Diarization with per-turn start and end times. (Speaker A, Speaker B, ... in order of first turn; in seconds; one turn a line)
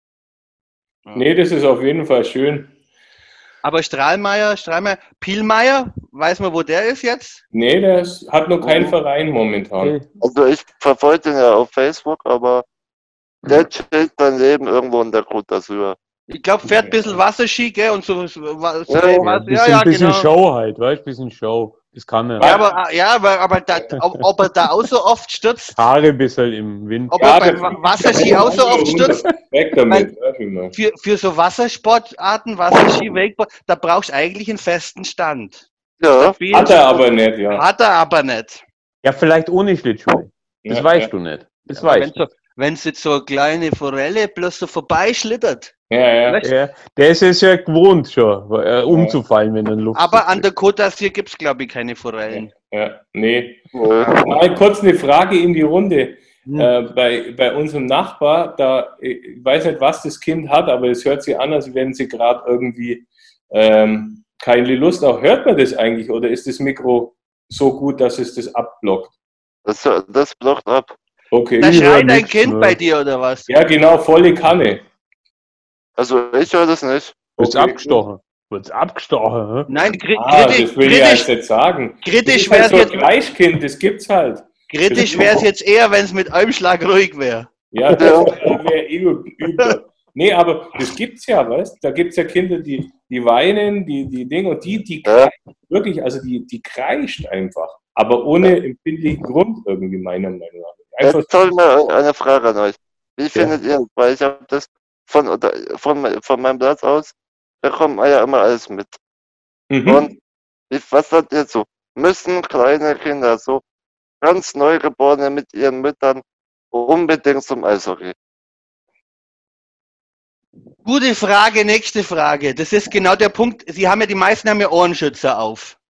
Speaker A: 1.1-2.7
Speaker B: 3.6-7.4
Speaker A: 7.5-9.9
Speaker C: 8.6-8.9
Speaker D: 9.8-10.1
Speaker C: 10.2-12.7
Speaker C: 13.4-16.0
Speaker B: 16.3-20.3
Speaker A: 16.8-17.1
Speaker C: 18.9-19.3
Speaker D: 19.2-22.4
Speaker A: 22.4-22.7
Speaker B: 22.4-25.8
Speaker D: 25.8-29.2
Speaker B: 27.1-29.2
Speaker A: 27.2-30.7
Speaker B: 30.7-35.6
Speaker C: 36.0-36.3
Speaker B: 36.2-38.6
Speaker A: 36.5-37.6
Speaker D: 39.0-42.1
Speaker A: 40.6-41.1
Speaker B: 41.7-45.7
Speaker A: 45.9-46.4
Speaker B: 46.3-46.5
Speaker D: 46.4-50.5
Speaker A: 48.9-49.2
Speaker B: 49.9-52.5
Speaker A: 52.3-69.1
Speaker C: 53.7-54.4
Speaker D: 56.4-56.7
Speaker C: 69.6-70.9
Speaker A: 71.3-71.8
Speaker B: 71.6-73.5
Speaker D: 71.6-72.8
Speaker A: 73.5-74.8
Speaker C: 76.0-77.2
Speaker A: 77.4-78.0
Speaker D: 77.4-79.7
Speaker B: 79.7-81.3
Speaker A: 80.2-85.3
Speaker B: 82.0-83.1
Speaker B: 84.7-87.5
Speaker A: 87.7-101.3
Speaker C: 87.9-88.3
Speaker C: 95.0-95.3
Speaker C: 101.0-109.0
Speaker A: 109.7-110.1
Speaker C: 109.8-110.1
Speaker C: 110.7-113.6
Speaker C: 114.2-118.1
Speaker B: 120.8-125.8